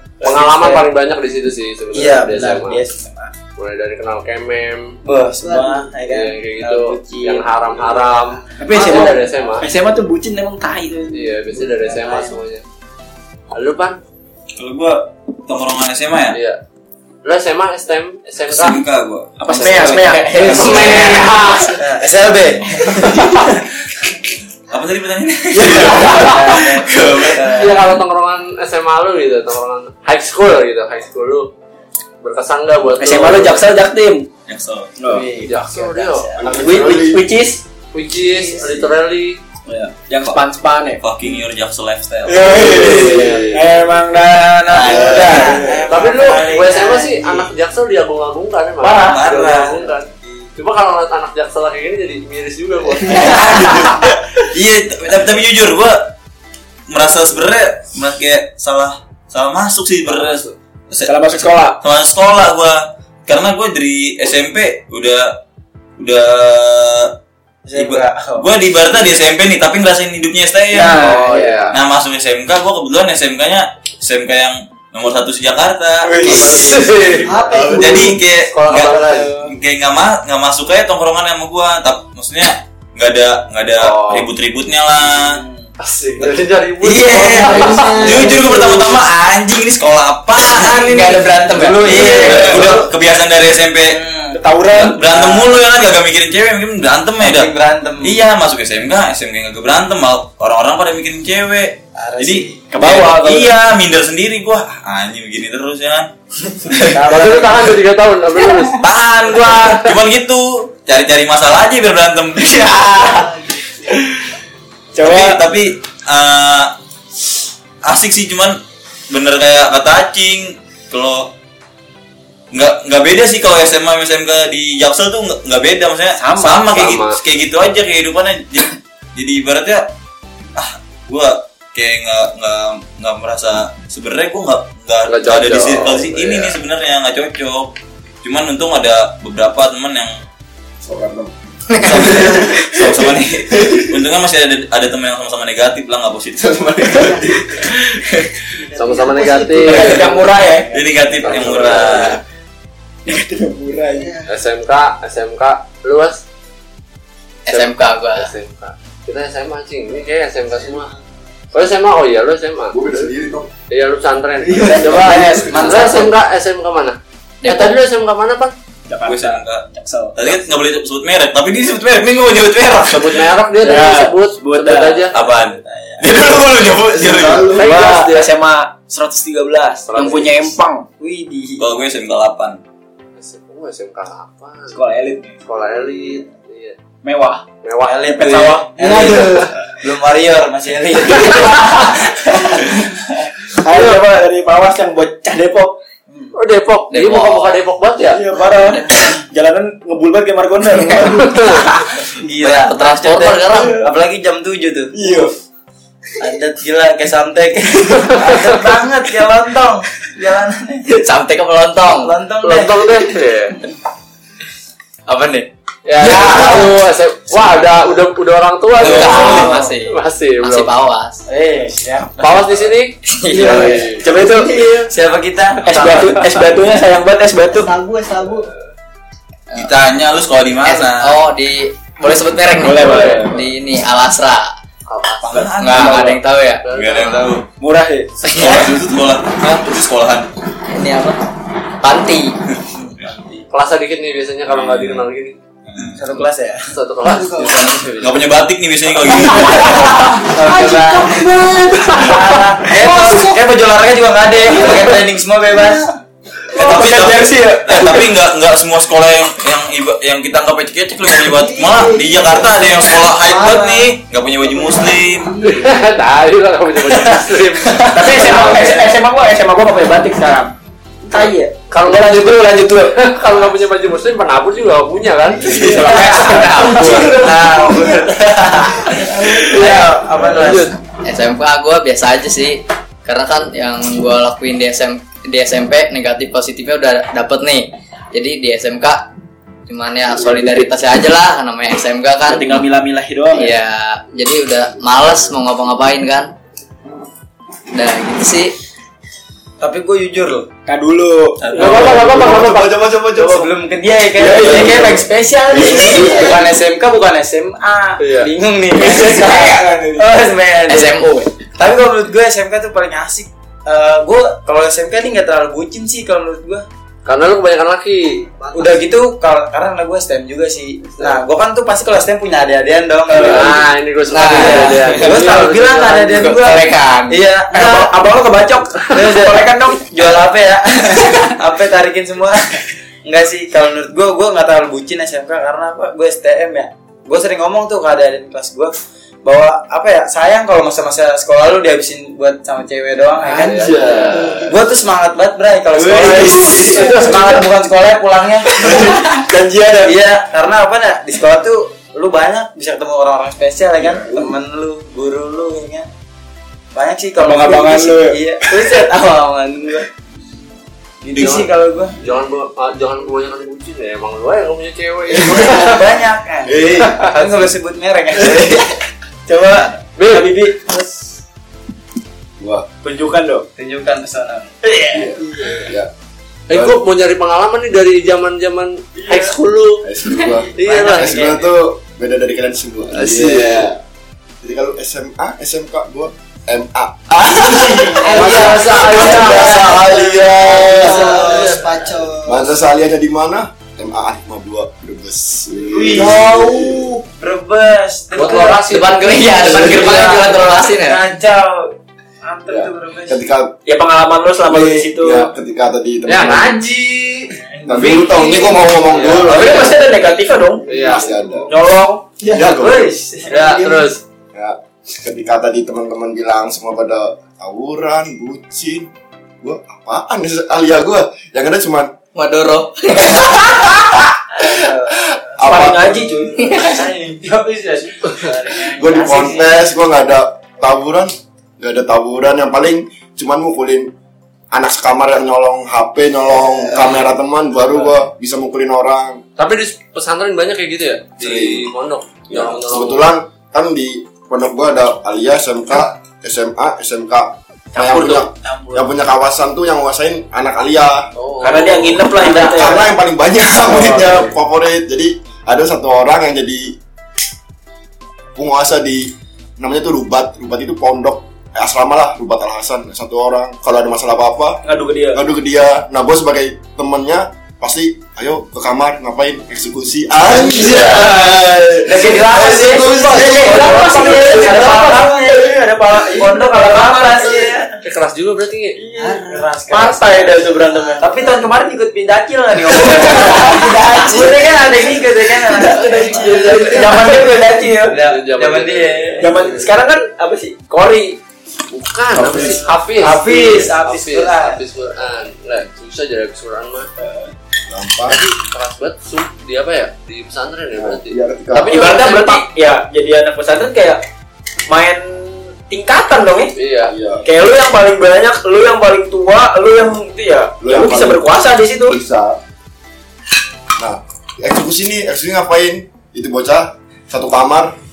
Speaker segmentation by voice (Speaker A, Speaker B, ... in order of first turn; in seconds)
Speaker A: 0.2-0.9, 1.9-3.3, 5.0-8.1, 11.5-12.4, 20.4-23.7, 25.6-27.9, 35.1-36.9, 38.2-38.9, 44.8-47.3, 67.7-68.5, 76.3-76.8, 77.3-77.7, 85.0-85.7, 87.3-88.1, 91.5-92.9, 93.9-94.4, 95.1-95.5, 97.2-98.2, 102.0-102.7, 106.8-107.8, 164.4-166.2, 175.6-176.3, 181.0-181.8, 185.6-186.1, 187.8-193.3, 196.1-196.4, 198.9-199.2, 202.1-204.9, 206.2-210.9, 212.0-213.2, 215.1-215.5, 216.1-216.7, 218.8-219.8, 221.3-222.7, 223.4-226.4, 243.0-243.4, 245.9-246.7, 249.4-255.9, 267.8-268.8, 275.5-280.7, 299.6-300.5, 303.1-316.7, 318.5-327.9, 328.9-355.9, 356.7-359.9, 361.0-362.0, 365.2-370.5, 373.6-375.0, 379.0-379.4, 380.2-381.5, 387.4-391.5, 395.7-398.7, 399.2-401.7, 402.2-403.2, 407.5-409.3, 412.2-413.8, 424.4-429.6, 447.8-448.9, 452.2-452.8, 470.5-470.9, 471.9-477.8, 479.0-489.6, 492.9-494.6
Speaker B: 0.2-2.8, 3.6-5.0, 6.0-9.7, 11.1-12.6, 13.5-14.0, 16.3-16.6, 17.2-18.8, 19.5-21.8, 27.5-31.5, 32.2-33.7, 35.1-36.9, 37.9-39.4, 42.5-43.7, 45.9-53.9, 70.9-71.8, 76.2-77.8, 78.4-79.4, 83.8-84.3, 85.8-88.5, 107.0-110.0, 126.7-127.2, 135.1-136.6, 148.7-150.2, 151.2-152.2, 154.3-156.2, 157.5-160.9, 161.5-162.8, 163.7-168.6, 172.8-175.2, 177.4-178.3, 179.9-180.5, 183.2-184.8, 185.4-186.8, 187.6-188.5, 193.7-194.0, 196.3-198.2, 201.2-201.7, 202.8-203.7, 212.4-213.6, 215.8-220.7, 222.2-224.0, 232.8-233.2, 234.9-235.6, 236.6-237.3, 243.5-245.4, 246.7-248.2, 265.4-268.9, 271.7-277.3, 279.6-280.8, 301.5-302.8, 308.0-308.3, 317.1-318.3, 323.1-326.4, 343.2-344.6, 361.2-365.9, 370.0-370.4, 376.5-379.9, 380.6-381.3, 382.9-383.7, 388.1-389.8, 390.5-391.8, 398.1-399.0, 399.7-400.0, 406.1-407.4, 409.0-409.7, 410.7-411.3, 413.3-414.0, 439.4-443.1, 451.1-452.1, 453.8-454.2, 477.8-478.8, 485.8-487.1, 488.0-489.2, 491.7-496.9, 498.1-502.4, 506.6-506.9
Speaker C: 5.4-6.0, 8.3-9.6, 46.8-47.4, 77.2-78.2, 87.3-88.9, 112.8-114.0, 146.9-147.6, 148.5-150.3, 153.9-154.4, 160.5-161.1, 223.3-224.9, 227.5-228.5, 247.1-247.7, 261.2-263.8, 264.4-265.7, 318.3-319.0, 343.8-344.6, 375.2-375.6, 388.0-389.8, 390.4-392.6, 478.9-479.5, 480.5-481.5, 482.9-484.9, 485.9-486.8
Speaker D: 8.6-11.3, 19.4-21.5, 25.6-26.4, 33.0-34.3, 35.0-35.3, 36.6-37.6, 39.7-41.0, 42.3-45.8, 48.8-49.2, 53.3-53.9, 61.0-61.8, 70.7-71.7, 76.1-76.5, 90.9-92.8, 94.3-95.4, 102.7-103.5, 107.1-107.4, 115.0-115.4, 126.2-126.7, 149.6-150.7, 153.1-154.1, 164.7-165.8, 168.9-170.4, 173.6-175.1, 177.5-180.9, 184.7-185.4, 187.0-187.4, 188.2-189.4, 193.5-195.8, 198.1-201.5, 203.6-203.9, 204.9-205.3, 224.0-224.6, 225.6-227.7, 232.6-233.5, 235.6-236.2, 237.6-238.3, 249.7-250.3, 252.8-253.3, 256.5-258.1, 267.9-270.5, 271.1-273.0, 276.2-277.2, 292.3-293.5, 300.7-302.0, 304.2-305.0, 308.7-310.1, 323.1-323.6, 324.3-325.3, 327.5-329.9, 345.8-347.4, 348.6-350.0, 357.2-358.2, 370.1-370.5, 372.8-373.5, 403.7-405.3, 409.2-410.7, 411.5-412.0, 425.4-426.7, 451.4-452.9, 464.6-465.2, 471.9-477.4, 479.7-481.3, 482.7-484.3, 485.6-488.0, 489.2-491.2, 493.0-493.7, 501.7-504.0, 504.7-506.5, 507.2-512.0
Speaker E: 14.6-16.4, 18.5-20.3, 24.7-27.6, 34.5-35.0, 41.0-43.1, 44.7-45.5, 48.9-49.8, 53.8-56.1, 56.9-65.4, 66.0-67.1, 67.7-71.1, 71.7-85.4, 86.8-94.0, 94.7-106.1, 106.7-107.0, 108.8-113.3, 115.0-116.8, 117.8-121.3, 122.5-129.9, 130.6-140.2, 141.8-147.0, 150.7-152.2, 169.1-173.3, 175.1-177.6, 181.6-182.6, 219.2-219.4, 229.5-231.2, 235.2-236.2, 236.7-237.5, 238.3-240.3, 244.5-245.1, 245.7-246.2, 248.0-250.1, 256.5-265.4, 301.4-302.1, 305.6-305.9
Speaker F: 36.4-37.2, 44.9-45.5, 77.6-77.9, 140.8-144.0, 146.4-147.5, 162.7-163.5, 177.0-177.7, 301.6-303.5, 304.2-304.9, 343.6-344.4, 346.0-346.8, 353.8-354.3, 365.1-365.5, 366.5-367.1, 372.4-372.7, 374.9-375.9, 376.5-376.8, 379.8-383.8, 384.4-391.3, 392.2-396.9, 402.5-403.5, 405.0-406.6, 407.7-409.8, 410.7-411.5, 412.3-412.9, 414.3-421.9, 424.9-426.2, 428.7-433.9, 434.5-439.2, 441.2-441.7, 442.3-451.1, 452.2-456.8, 458.4-464.6, 465.1-474.4, 492.1-492.7, 497.7-498.2, 500.8-502.0, 506.9-507.3, 510.6-511.2, 511.8-512.4, 513.8-517.8
Speaker G: 157.5-158.3, 167.4-167.8, 196.9-197.6, 202.4-203.8, 210.9-212.2, 218.8-221.2, 223.1-223.8, 229.5-229.8, 230.7-234.5, 235.6-236.7, 238.2-238.8, 240.7-241.2, 241.8-242.4, 275.9-277.2, 281.0-289.1, 289.7-292.7, 293.3-296.3, 297.7-298.6, 310.7-311.2, 324.1-324.7, 326.2-327.1, 398.5-401.1, 422.1-423.9